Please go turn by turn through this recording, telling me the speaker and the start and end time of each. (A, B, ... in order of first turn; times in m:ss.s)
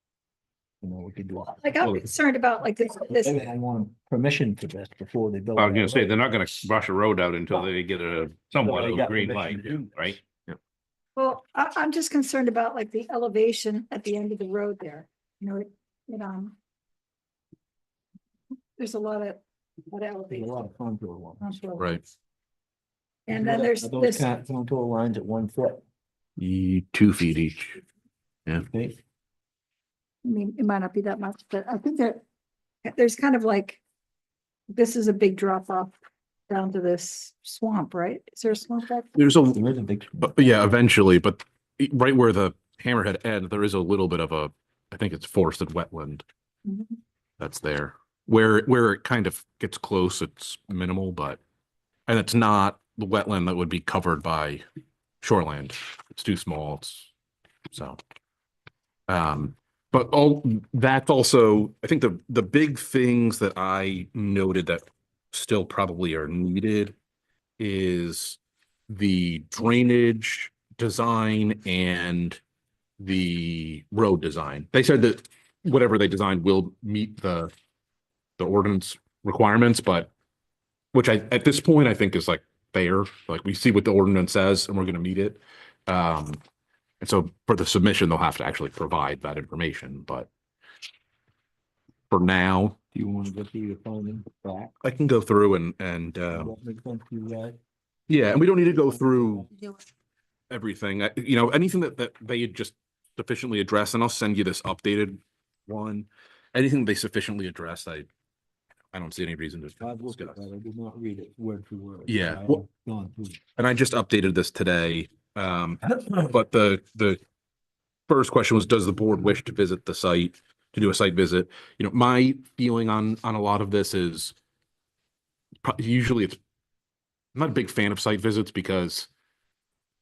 0:00.8-0:01.6 A
0:01.6-0:03.4 B
0:03.1-0:06.1 A
0:05.6-0:10.2 C
0:08.6-0:10.2 A
0:11.2-0:16.6 B
0:18.8-0:20.6 B
0:20.3-0:21.5 A
0:21.4-0:22.0 B
0:23.3-0:24.3 B
0:23.3-0:25.8 A
0:26.4-0:27.8 D
0:28.6-0:29.0 A
0:30.2-0:32.2 B
0:32.8-0:33.8 B
0:34.7-0:35.9 B
0:36.5-0:39.2 B
0:39.2-0:39.6 D
0:39.5-0:40.5 A
0:40.2-0:46.2 D
0:46.7-0:47.0 B
0:47.4-0:51.4 D
0:52.1-0:54.6 D
0:55.2-0:57.1 D
0:57.7-0:58.0 D
0:59.1-1:07.0 D
1:07.6-1:12.4 D
1:13.0-1:17.5 D
1:18.4-1:20.1 D
1:20.9-1:26.4 D
1:27.0-1:30.3 D
1:32.1-1:32.8 D
1:32.9-1:34.7 A
1:34.8-1:36.5 D
1:36.3-1:37.6 A
1:38.1-1:39.5 D
1:38.8-1:39.5 A
1:40.5-1:48.1 D
1:48.9-1:50.5 D
1:49.8-1:53.4 A
1:52.1-1:52.6 D
1:53.6-1:57.2 D
1:55.8-1:56.2 A
1:58.1-2:04.3 D
2:05.6-2:06.4 D
2:07.4-2:09.1 D